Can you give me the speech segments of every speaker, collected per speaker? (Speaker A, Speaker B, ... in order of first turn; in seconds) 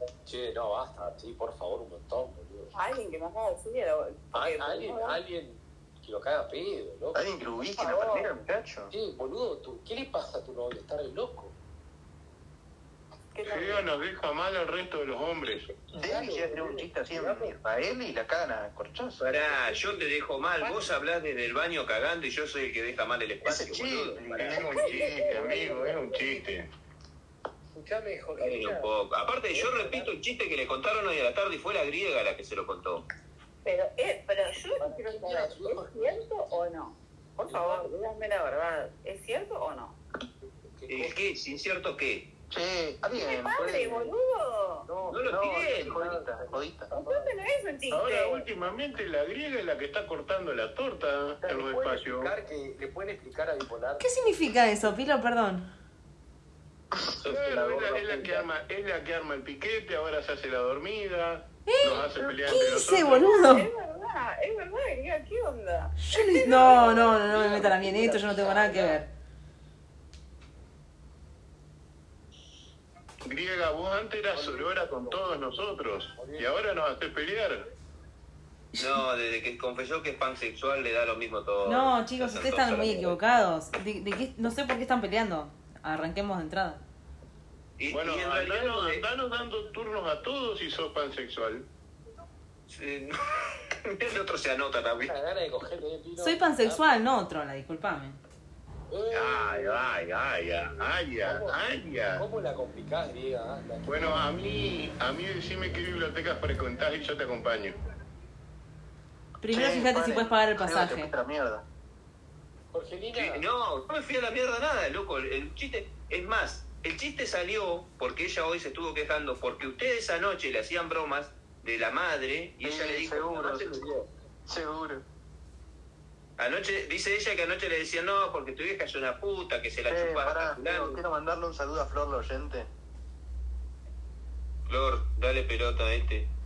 Speaker A: 0.2-2.7, 4.3-7.2, 8.9-11.5, 15.9-17.6, 19.4-20.9, 25.2-26.6, 27.7-28.9, 29.5-30.1, 34.8-36.7, 37.5-37.9, 40.6-41.2, 44.8-47.4, 51.4-54.1, 66.7-69.0, 74.3-76.7, 95.0-96.9, 98.9-99.9, 101.2-104.2, 112.7-113.5
Speaker B: 2.7-5.2, 7.8-8.4, 13.3-13.9, 24.6-26.3, 33.6-40.0, 43.1-44.9, 46.9-48.5, 63.2-66.9
Speaker C: 7.2-8.9, 16.0-19.4, 23.4-24.7, 42.5-44.1, 45.2-46.9, 56.9-58.4, 109.5-111.6, 122.6-123.9, 124.5-125.0, 129.9-132.7
Speaker D: 13.4-15.7, 24.4-26.7, 47.9-52.3, 57.2-63.4, 73.3-77.7, 87.9-91.7, 99.2-102.2, 103.9-107.8
Speaker E: 19.2-24.6, 28.4-33.0, 40.9-42.3, 45.1-46.0, 78.8-83.2, 87.8-89.0, 92.7-95.2, 99.3-100.2, 113.2-124.1, 126.4-131.0, 134.7-136.3
Speaker F: 54.0-55.7, 61.7-63.7, 66.0-69.1, 81.7-86.8, 96.2-98.2, 109.4-111.1